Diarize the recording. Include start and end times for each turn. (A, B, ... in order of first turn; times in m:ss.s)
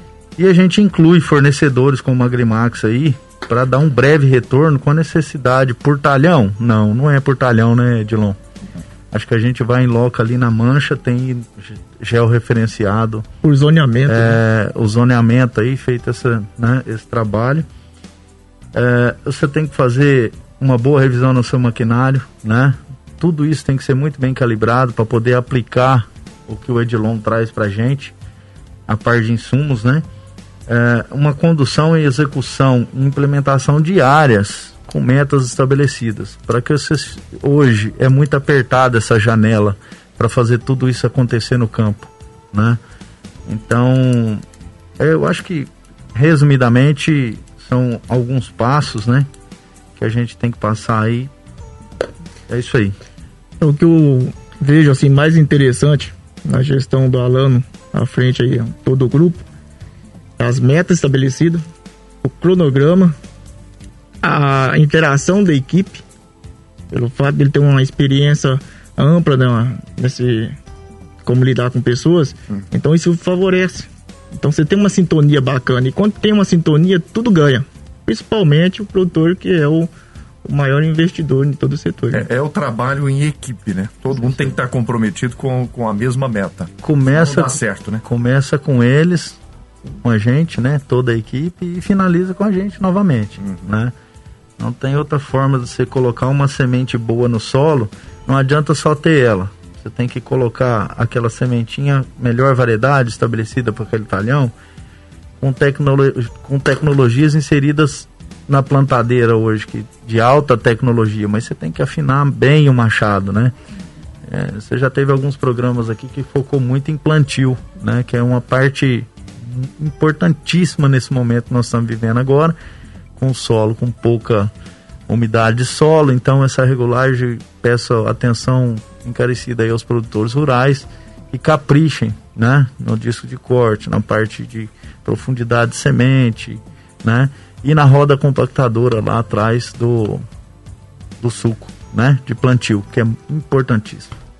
0:00.4-0:08.4 A
0:09.1-0:13.2 A
0:13.4-0:14.4 B
0:14.1-0:17.7 A
0:18.7-0:28.1 A
0:28.9-0:30.0 A
0:30.7-0:42.8 A
0:43.4-0:44.4 A
0:45.0-0:49.3 A
0:50.0-0:51.3 A
0:52.5-0:52.9 A
0:53.6-0:59.4 B
1:00.4-1:01.6 B
1:02.2-1:03.2 B
1:04.2-1:06.0 B
1:06.9-1:10.6 B
1:11.2-1:19.9 B
1:20.4-1:22.2 B
1:22.1-1:28.0 C
1:26.8-1:29.4 A
1:30.0-1:33.9 A
1:33.4-1:33.7 C
1:34.6-1:44.5 A
1:45.4-1:53.5 A
1:54.2-2:02.5 A
2:03.2-2:04.5 A
2:05.1-2:20.2 A
2:21.2-2:24.1 A